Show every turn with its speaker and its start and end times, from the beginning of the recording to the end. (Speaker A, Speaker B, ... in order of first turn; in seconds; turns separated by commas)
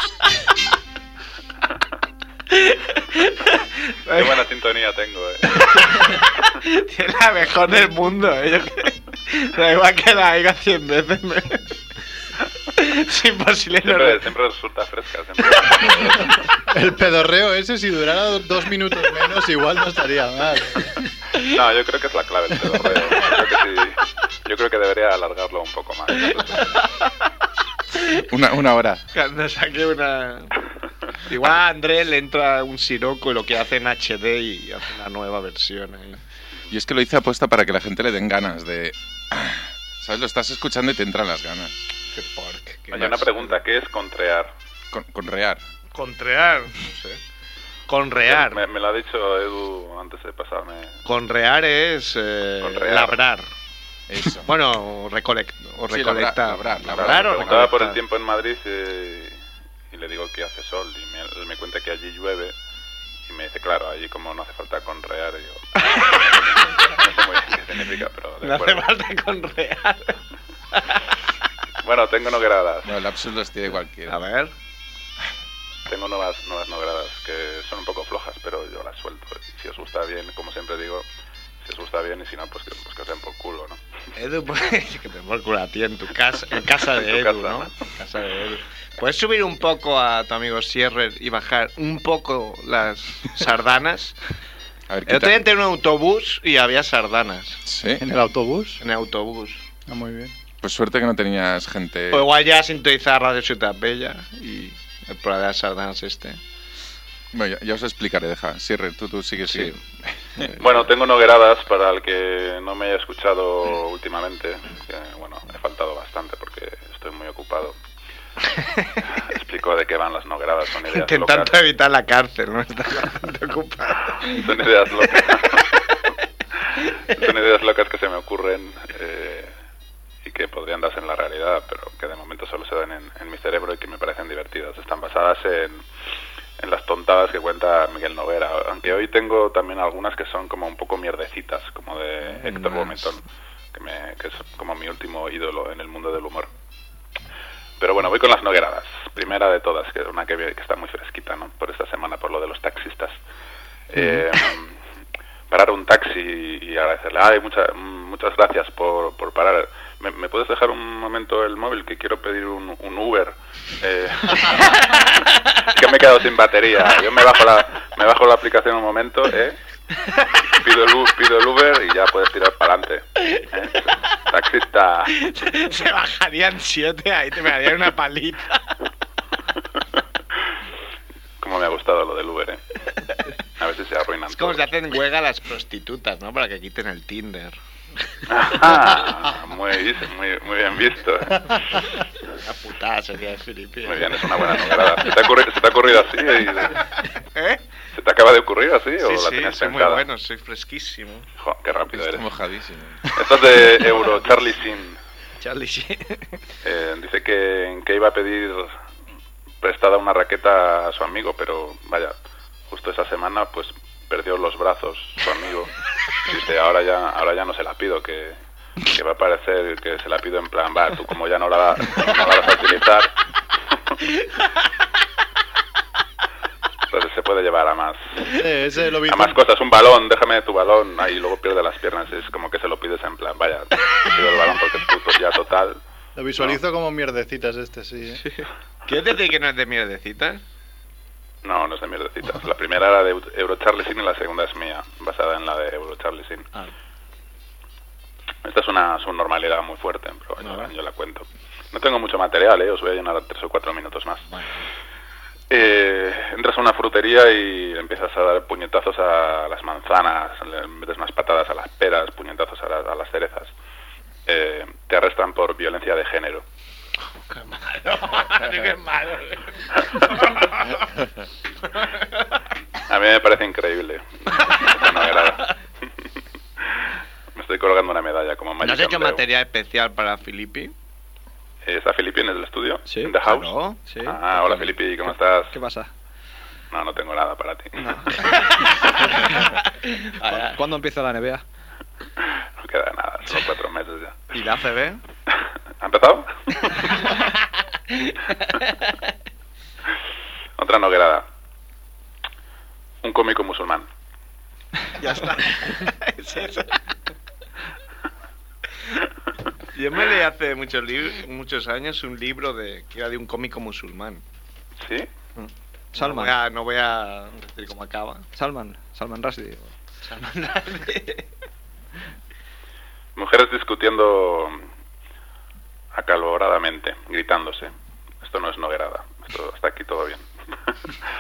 Speaker A: 2.5-4.5, Speaker B: 4.1-6.0, Speaker A: 5.5-11.7, Speaker A: 12.7-14.2, Speaker B: 13.8-16.4, Speaker C: 16.7-20.9, Speaker B: 21.4-26.7, Speaker D: 28.3-29.0, Speaker A: 29.1-30.5, Speaker A: 31.2-36.2, Speaker D: 36.7-41.8, Speaker A: 42.1-43.6, Speaker B: 42.9-44.5, Speaker D: 44.9-45.6, Speaker A: 45.9-47.2, Speaker A: 47.9-48.6, Speaker B: 48.3-51.0, Speaker A: 51.1-53.5, Speaker B: 52.6-53.2, Speaker D: 54.1-54.5, Speaker A: 54.4-58.0, Speaker D: 55.9-57.8, Speaker B: 56.9-59.4, Speaker B: 59.9-62.5, Speaker B: 63.3-68.9, Speaker A: 68.4-70.2, Speaker B: 71.8-73.0, Speaker D: 72.8-74.2, Speaker A: 74.1-74.5, Speaker B: 75.9-81.1, Speaker B: 81.6-83.8, Speaker A: 84.2-94.2, Speaker B: 87.0-87.7, Speaker D: 94.9-95.4, Speaker A: 95.1-97.6, Speaker D: 97.7-98.0, Speaker C: 97.9-98.8, Speaker A: 98.8-99.6, Speaker C: 99.9-100.3, Speaker D: 100.6-102.3, Speaker A: 102.1-106.4, Speaker D: 107.3-110.5, Speaker B: 110.6-117.8, Speaker A: 118.6-119.0, Speaker B: 119.2-121.6, Speaker A: 120.9-124.4, Speaker B: 124.2-125.7, Speaker B: 127.0-129.5, Speaker B: 130.2-135.8, Speaker B: 136.6-143.2, Speaker E: 142.4-143.1, Speaker B: 143.7-146.5, Speaker B: 147.8-153.2, Speaker B: 153.9-154.8, Speaker B: 155.5-169.6, Speaker B: 170.5-175.2, Speaker A: 175.2-178.6, Speaker B: 181.4-182.6, Speaker B: 183.6-184.6, Speaker A: 184.3-187.6, Speaker B: 188.3-192.0, Speaker A: 192.3-194.6, Speaker B: 193.9-196.8, Speaker A: 197.2-197.6, Speaker B: 197.9-200.0, Speaker A: 199.0-201.3, Speaker B: 201.4-202.3, Speaker D: 201.9-203.1, Speaker B: 203.1-205.0, Speaker A: 205.4-206.3, Speaker B: 206.6-208.8, Speaker B: 209.6-212.1, Speaker B: 212.7-215.7, Speaker B: 216.2-223.1, Speaker B: 226.9-228.4, Speaker C: 228.3-229.4, Speaker B: 229.1-235.8, Speaker C: 236.2-238.2, Speaker A: 238.9-240.4, Speaker B: 241.4-246.5, Speaker B: 248.4-254.2, Speaker A: 250.4-250.7, Speaker B: 255.5-263.5, Speaker B: 264.3-266.4, Speaker A: 267.3-270.8, Speaker B: 272.9-275.5, Speaker B: 277.4-279.2, Speaker A: 278.6-280.7, Speaker B: 281.6-285.5, Speaker E: 282.9-283.2, Speaker A: 283.2-283.8, Speaker E: 283.9-284.7, Speaker E: 285.5-285.9, Speaker B: 286.7-288.2, Speaker E: 289.1-289.4, Speaker E: 290.2-291.4, Speaker A: 290.2-290.6, Speaker B: 292.6-294.3, Speaker A: 294.3-295.0, Speaker B: 295.8-297.1, Speaker B: 300.6-301.2, Speaker B: 303.0-303.9, Speaker A: 305.0-306.8, Speaker A: 309.7-314.2, Speaker B: 314.8-315.1, Speaker A: 315.4-318.3, Speaker E: 315.9-316.4, Speaker E: 318.4-319.7, Speaker A: 320.0-321.2, Speaker B: 323.2-324.6, Speaker B: 325.9-330.7